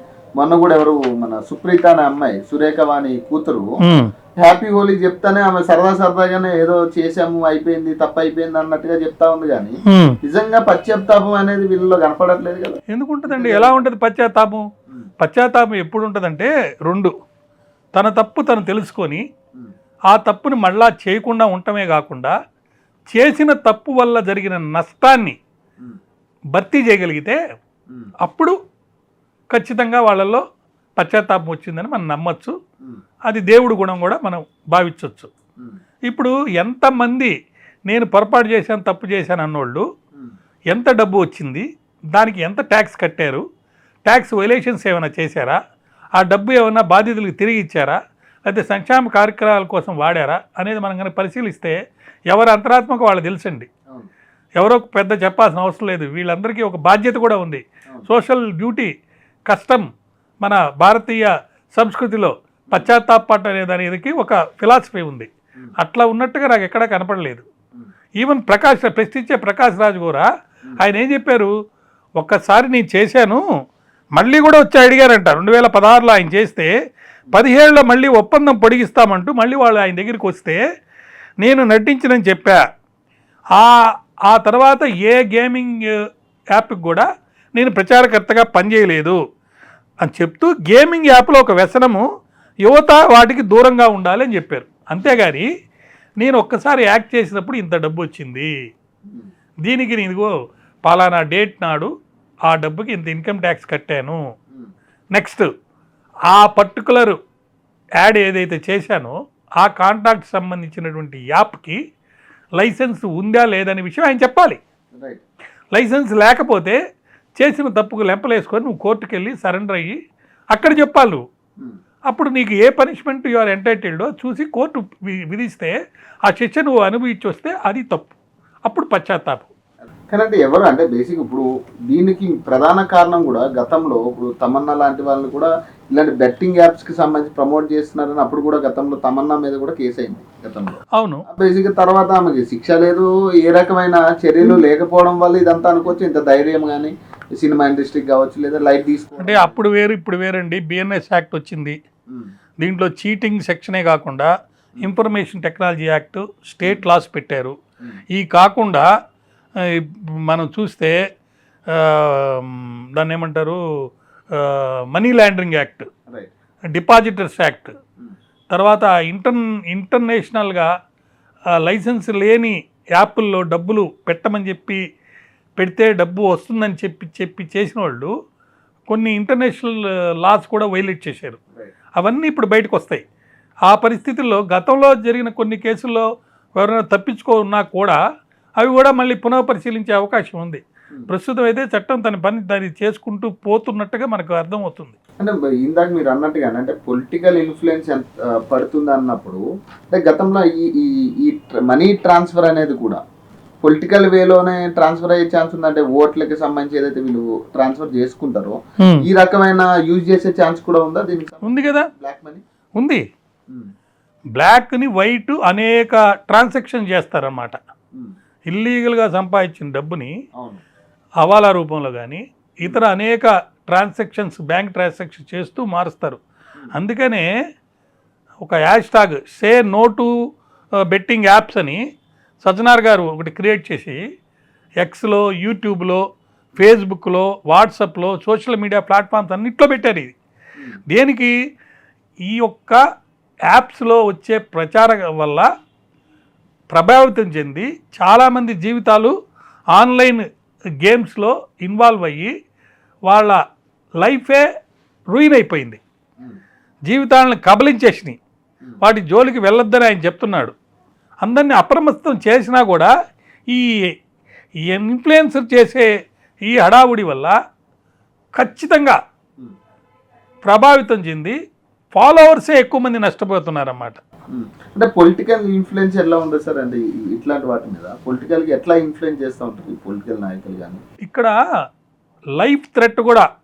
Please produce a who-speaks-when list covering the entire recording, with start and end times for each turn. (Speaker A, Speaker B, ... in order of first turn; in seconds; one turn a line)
Speaker A: 0.4-3.7
Speaker B: 3.8-4.1
Speaker A: 4.4-13.9
Speaker B: 9.9-10.2
Speaker B: 12.9-14.6
Speaker B: 15.2-17.1
Speaker B: 18.0-19.2
Speaker B: 20.1-22.4
Speaker B: 23.1-25.4
Speaker B: 26.5-27.4
Speaker B: 28.2-28.6
Speaker B: 29.5-30.4
Speaker B: 31.0-32.5
Speaker B: 33.3-35.3
Speaker B: 36.1-37.3
Speaker B: 37.9-39.9
Speaker B: 40.7-43.4
Speaker B: 44.1-45.6
Speaker B: 46.2-51.8
Speaker B: 52.3-53.7
Speaker B: 54.6-58.9
Speaker B: 59.5-59.9
Speaker B: 60.4-67.5
Speaker B: 68.2-70.3
Speaker B: 70.8-71.5
Speaker B: 72.2-73.4
Speaker B: 74.2-76.7
Speaker B: 77.3-80.6
Speaker B: 81.4-82.6
Speaker B: 84.3-86.0
Speaker B: 86.5-89.2
Speaker B: 90.0-92.0
Speaker B: 92.7-95.5
Speaker B: 96.2-98.5
Speaker B: 99.7-100.3
Speaker B: 100.9-101.9
Speaker B: 102.5-104.2
Speaker B: 105.2-105.5
Speaker B: 106.3-107.2
Speaker B: 108.0-111.8
Speaker B: 112.6-114.6
Speaker A: 115.0-115.2
Speaker B: 115.7-116.8
Speaker B: 117.4-120.0
Speaker B: 120.5-121.2
Speaker B: 122.1-125.7
Speaker B: 126.3-128.1
Speaker B: 128.7-129.5
Speaker A: 130.1-149.6
Speaker B: 141.0-141.2
Speaker B: 149.2-151.8
Speaker B: 152.6-154.3
Speaker B: 154.8-157.6
Speaker B: 158.1-158.9
Speaker B: 159.6-160.9
Speaker B: 161.7-163.6
Speaker B: 164.3-165.9
Speaker B: 166.7-167.8
Speaker B: 168.5-170.7
Speaker B: 171.6-174.8
Speaker B: 175.6-178.1
Speaker B: 178.9-181.4
Speaker B: 182.0-183.0
Speaker B: 183.7-186.1
Speaker B: 186.6-188.0
Speaker B: 188.6-195.0
Speaker A: 195.2-203.0
Speaker A: 203.6-212.4
Speaker B: 211.4-211.9
Speaker B: 214.4-217.6
Speaker B: 218.5-220.1
Speaker B: 221.2-226.2
Speaker B: 226.8-227.3
Speaker B: 228.4-230.1
Speaker B: 230.9-231.8
Speaker B: 232.4-234.0
Speaker B: 234.8-236.0
Speaker B: 236.6-240.2
Speaker B: 240.9-241.3
Speaker B: 242.3-242.8
Speaker B: 243.5-245.5
Speaker B: 246.7-249.1
Speaker B: 249.8-250.2
Speaker B: 250.8-252.3
Speaker B: 253.1-253.4
Speaker B: 254.0-254.4
Speaker B: 255.1-255.8
Speaker B: 256.9-258.2
Speaker B: 258.8-260.6
Speaker B: 261.2-262.9
Speaker B: 263.5-263.9
Speaker B: 264.7-265.9
Speaker B: 266.5-267.3
Speaker B: 268.4-269.0
Speaker B: 270.4-271.4
Speaker B: 271.9-274.0
Speaker A: 274.3-280.8
Speaker B: 281.1-281.3
Speaker B: 282.4-283.3